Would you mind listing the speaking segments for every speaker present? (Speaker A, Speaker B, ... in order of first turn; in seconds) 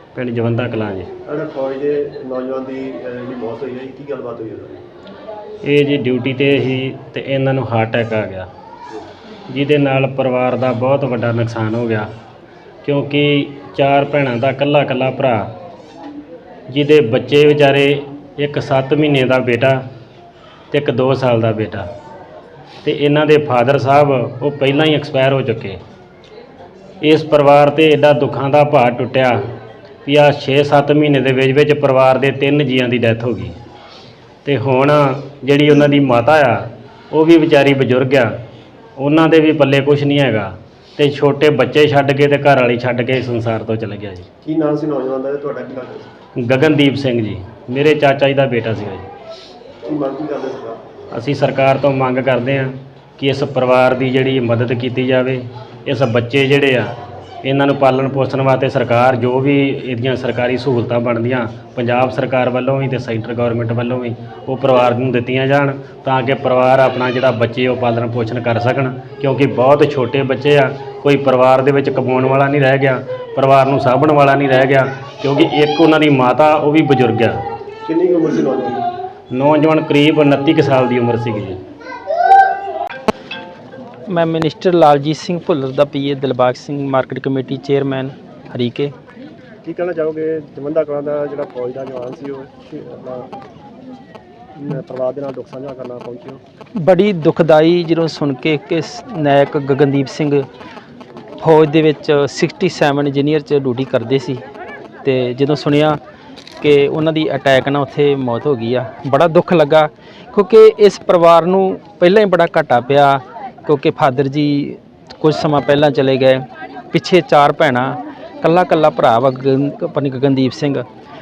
Speaker A: 0.1-1.1, 5.6-8.5, 9.5-12.1, 12.8-15.5, 16.7-19.8, 20.7-21.9, 22.8-25.8, 27.0-29.4, 30.0-33.5, 34.5-38.3, 39.0-44.2, 46.4-49.1, 51.1-56.9, 57.4-77.4, 79.3-81.6
Speaker B: 1.2-4.8, 44.4-46.1, 49.9-50.8, 77.9-78.8, 89.6-93.3, 94.5-96.4
Speaker C: 84.1-88.9, 96.8-100.5, 101.4-104.4, 105.0-106.0, 106.6-120.8